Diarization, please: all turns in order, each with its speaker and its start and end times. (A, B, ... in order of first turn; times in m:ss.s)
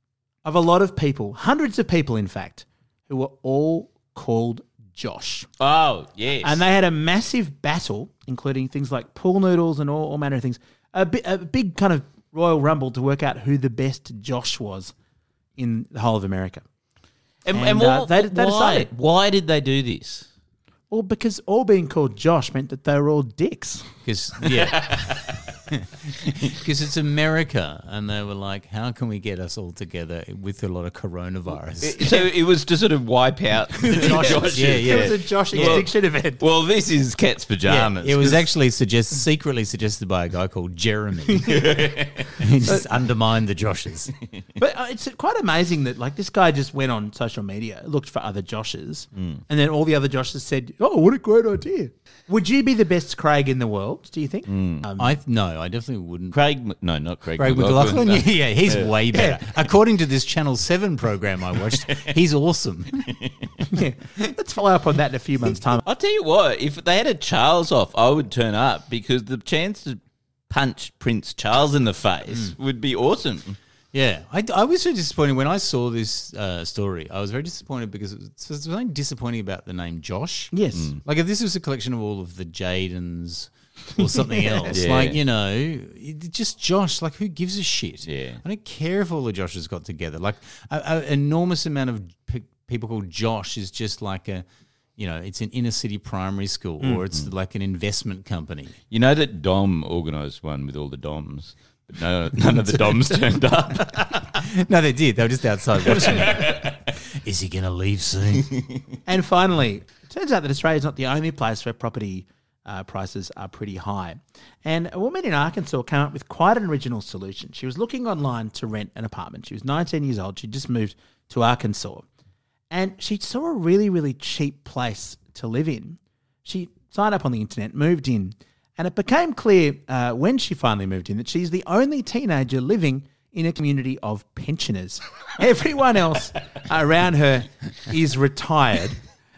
0:00.4-0:05.5 A
0:05.6-0:06.6 B
0:06.4-0:14.9 A
0:15.6-0:16.6 A
0:17.4-0:20.3 B
0:17.5-0:18.9 A
0:20.9-0:23.8 A
0:24.0-0:32.2 C
0:24.5-0:25.4 B
0:31.8-0:38.4 B
0:33.9-0:35.8 C
0:34.0-0:36.4 A
0:37.6-0:44.1 C
0:41.5-0:42.4 B
0:44.6-0:55.1 A
0:49.1-0:49.4 B
0:54.5-0:54.9 B
0:55.0-0:56.4 C
0:56.3-0:59.0 B
0:57.4-1:03.1 C
0:59.1-0:59.4 A
1:03.1-1:03.5 B
1:03.7-1:05.8 A
1:05.8-1:10.0 B
1:10.5-1:13.6 B
1:13.9-1:34.4 C
1:20.5-1:20.9 A
1:24.3-1:24.6 A
1:24.7-1:25.2 B
1:28.0-1:28.4 B
1:35.0-1:38.8 C
1:38.9-1:44.0 B
1:44.3-1:48.6 C
1:45.9-1:46.8 B
1:49.1-2:02.0 A
2:02.7-2:19.0 A